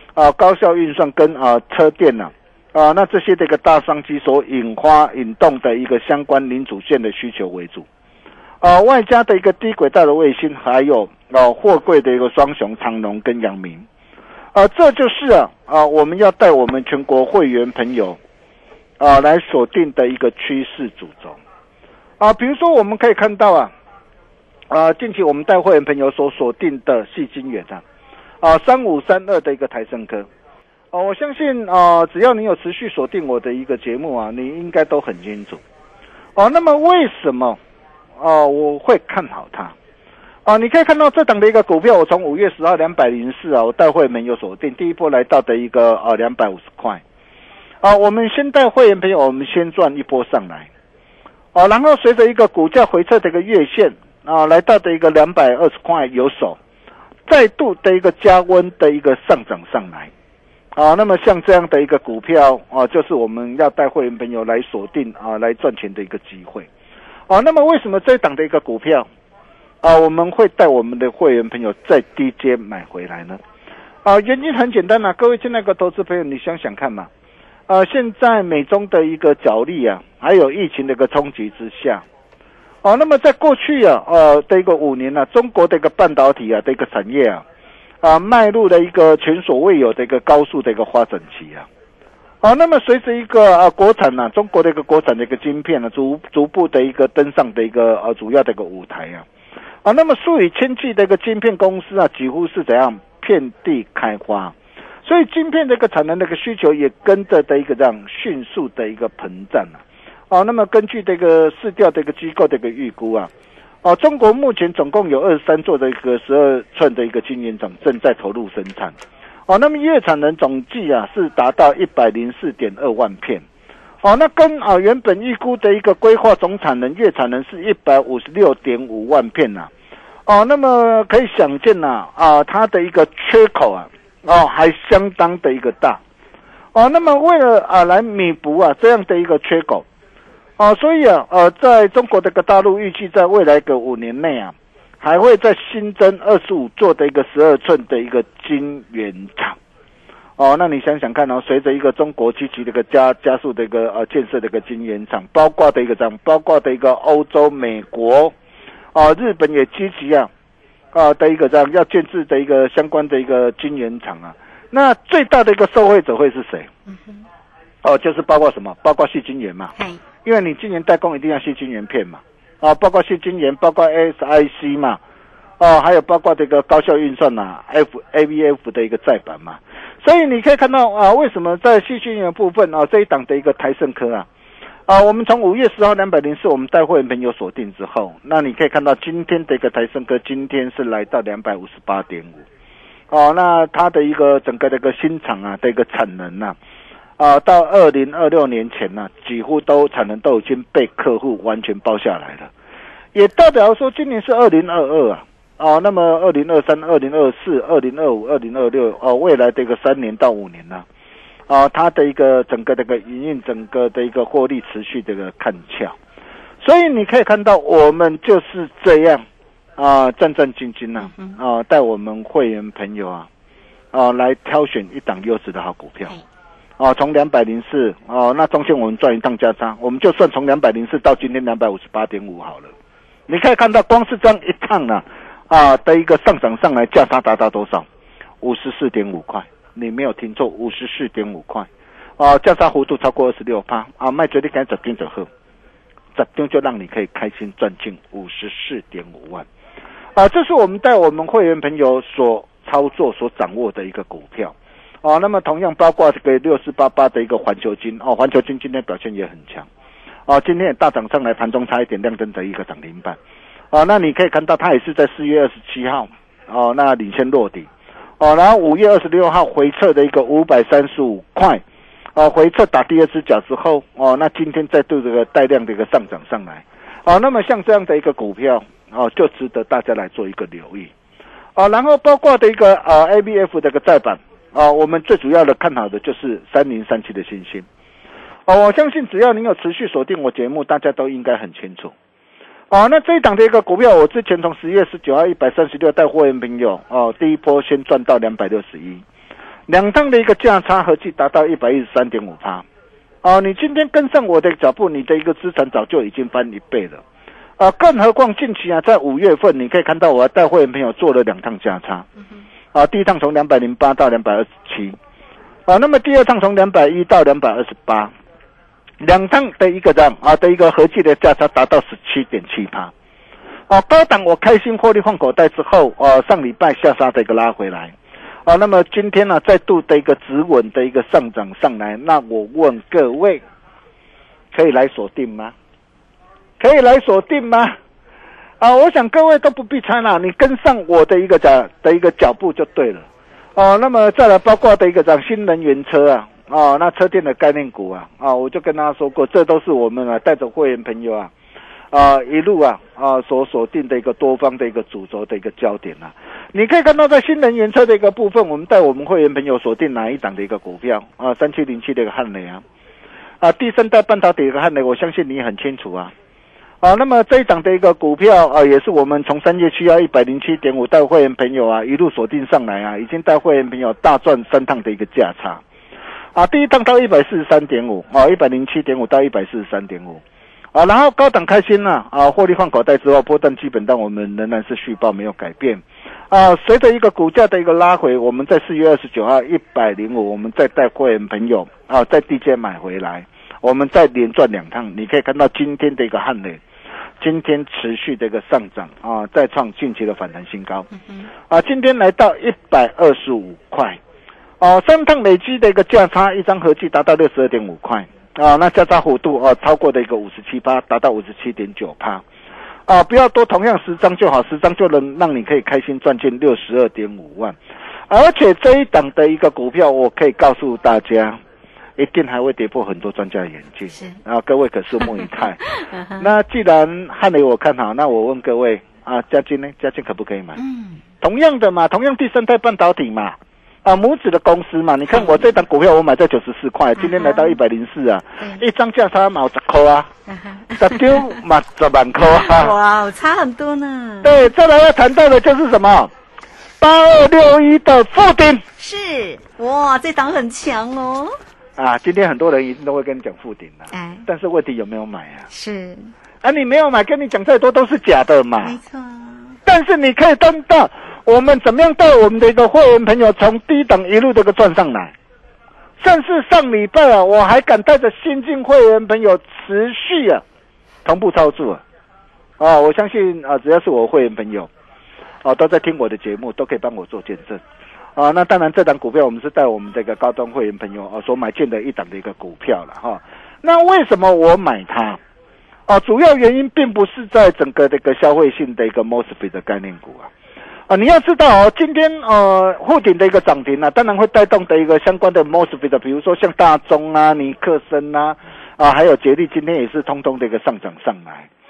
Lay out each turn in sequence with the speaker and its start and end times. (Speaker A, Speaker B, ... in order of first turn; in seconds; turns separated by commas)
Speaker A: 0.1-7.9, Speaker A: 8.6-13.8, Speaker A: 14.5-18.2, Speaker A: 19.0-21.4, Speaker A: 22.2-23.7, Speaker A: 24.7-27.8, Speaker A: 28.4-30.3, Speaker A: 30.9-35.6, Speaker A: 36.4-37.6, Speaker A: 38.2-39.7, Speaker A: 40.5-47.0, Speaker A: 47.8-50.7, Speaker A: 51.5-56.6, Speaker A: 57.3-60.1, Speaker A: 60.7-66.7, Speaker A: 67.3-69.1, Speaker A: 69.8-73.4, Speaker A: 74.0-77.1, Speaker A: 77.7-82.0, Speaker A: 82.8-87.4, Speaker A: 88.0-91.7, Speaker A: 92.4-99.2, Speaker A: 99.8-113.3, Speaker A: 113.8-118.9, Speaker A: 119.5-123.4, Speaker A: 124.0-129.7, Speaker A: 130.3-136.0, Speaker A: 136.7-139.8, Speaker A: 140.6-149.6, Speaker A: 150.4-158.3, Speaker A: 158.9-160.3, Speaker A: 160.9-166.7, Speaker B: 166.9-167.2, Speaker A: 167.8-169.7, Speaker B: 169.8-170.0, Speaker A: 170.2-175.0, Speaker A: 175.6-184.3, Speaker A: 184.9-192.4, Speaker A: 193.1-196.6, Speaker A: 197.2-202.5, Speaker A: 203.1-210.8, Speaker A: 211.5-215.9, Speaker A: 216.6-219.2, Speaker A: 219.8-223.3, Speaker B: 221.0-221.4, Speaker A: 223.9-226.1, Speaker A: 226.8-232.7, Speaker A: 233.3-237.8, Speaker A: 238.4-241.7, Speaker A: 242.2-245.3, Speaker A: 246.1-249.4, Speaker A: 250.2-259.7, Speaker A: 260.3-263.2, Speaker A: 263.7-267.7, Speaker A: 268.2-271.6, Speaker A: 272.1-280.9, Speaker A: 281.6-287.6, Speaker A: 288.5-291.9, Speaker A: 292.7-299.0, Speaker A: 299.7-302.6, Speaker A: 303.2-307.0, Speaker A: 307.6-312.1, Speaker A: 312.7-315.0, Speaker A: 315.7-318.1, Speaker A: 319.0-322.9, Speaker A: 323.7-327.9, Speaker A: 328.4-333.4, Speaker A: 334.5-335.5, Speaker A: 336.6-337.8, Speaker A: 338.6-351.3, Speaker A: 351.9-362.6, Speaker A: 363.4-366.1, Speaker A: 366.8-375.6, Speaker A: 376.4-380.2, Speaker A: 380.7-396.6, Speaker A: 397.2-400.9, Speaker A: 401.5-404.0, Speaker A: 404.6-412.2, Speaker A: 412.9-417.6, Speaker A: 418.1-421.4, Speaker A: 422.0-430.6, Speaker B: 425.8-426.2, Speaker B: 430.6-431.0, Speaker A: 431.2-440.1, Speaker B: 437.0-437.6, Speaker B: 440.3-441.0, Speaker A: 440.7-442.7, Speaker B: 442.4-444.4, Speaker A: 444.2-446.1, Speaker A: 446.8-448.6, Speaker B: 448.8-451.4, Speaker A: 451.8-455.5, Speaker B: 453.9-454.2, Speaker B: 455.5-456.1, Speaker A: 456.4-458.8, Speaker B: 458.6-459.6, Speaker A: 459.6-465.1, Speaker A: 466.0-470.4, Speaker A: 471.0-471.8, Speaker A: 472.6-474.7, Speaker A: 475.4-477.6, Speaker A: 478.1-485.2, Speaker A: 485.9-490.3, Speaker A: 490.9-501.5